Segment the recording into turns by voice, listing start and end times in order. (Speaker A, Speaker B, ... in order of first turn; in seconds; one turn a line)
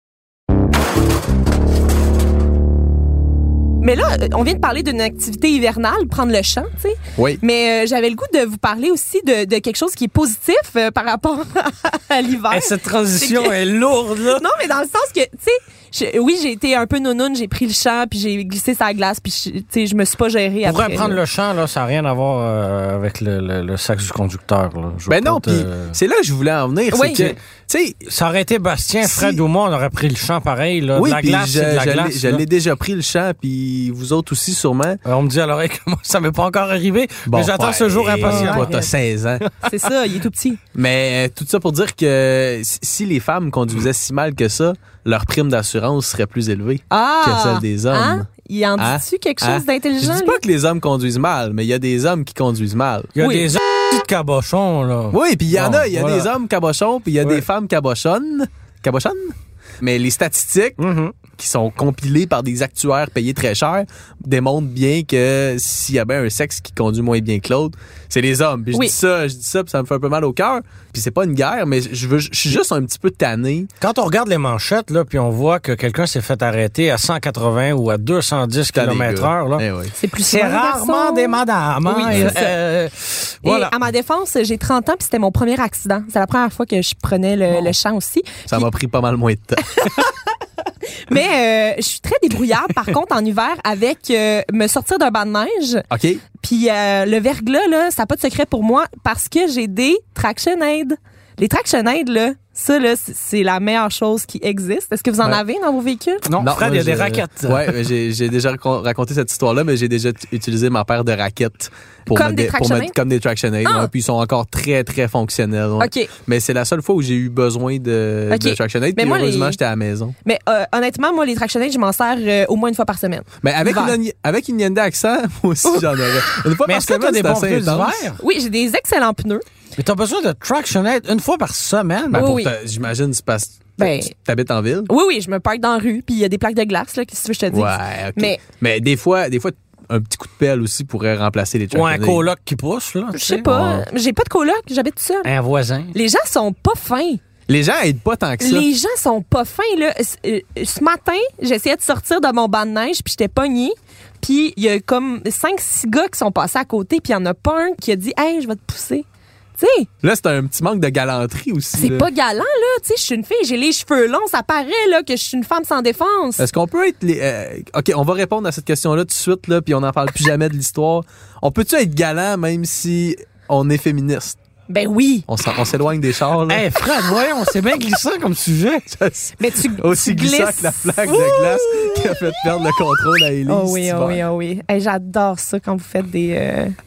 Speaker A: 3.8-13.5
Speaker B: 12.5-14.5
Speaker A: 14.3-21.2
Speaker B: 20.6-26.0
Speaker C: 25.1-28.0
Speaker A: 26.9-27.4
Speaker B: 28.1-32.4
Speaker C: 29.0-29.4
Speaker C: 30.9-35.0
Speaker B: 35.0-38.9
Speaker C: 37.3-39.5
Speaker A: 38.3-38.9
Speaker A: 39.6-40.6
Speaker C: 40.8-48.3
Speaker A: 46.9-50.4
Speaker C: 48.8-53.1
Speaker B: 53.1-56.3
Speaker A: 53.2-53.6
Speaker C: 55.1-60.8
Speaker B: 60.8-61.2
Speaker C: 61.4-73.7
Speaker B: 73.8-79.7
Speaker C: 78.7-79.9
Speaker A: 80.0-82.6
Speaker B: 80.2-83.7
Speaker C: 82.1-82.3
Speaker A: 83.4-88.7
Speaker C: 88.5-90.0
Speaker A: 89.8-90.3
Speaker A: 91.0-106.2
Speaker C: 95.9-96.2
Speaker B: 106.3-107.8
Speaker C: 106.4-120.2
Speaker A: 112.1-113.0
Speaker A: 113.6-113.9
Speaker A: 115.8-116.1
Speaker A: 118.3-119.6
Speaker A: 120.2-124.0
Speaker C: 123.4-128.1
Speaker B: 126.6-128.2
Speaker A: 128.2-129.4
Speaker B: 129.8-132.3
Speaker C: 132.1-134.9
Speaker A: 132.1-132.5
Speaker A: 133.8-134.1
Speaker A: 134.9-138.4
Speaker C: 137.5-142.2
Speaker B: 141.7-143.8
Speaker A: 143.1-145.3
Speaker B: 145.2-145.9
Speaker A: 145.9-147.2
Speaker C: 147.5-148.7
Speaker A: 148.4-159.1
Speaker A: 159.6-159.9
Speaker C: 160.0-162.1
Speaker A: 161.8-166.4
Speaker C: 166.4-174.4
Speaker A: 174.7-175.3
Speaker C: 175.3-176.7
Speaker B: 176.5-178.9
Speaker C: 178.9-184.2
Speaker A: 179.4-182.7
Speaker A: 183.5-186.8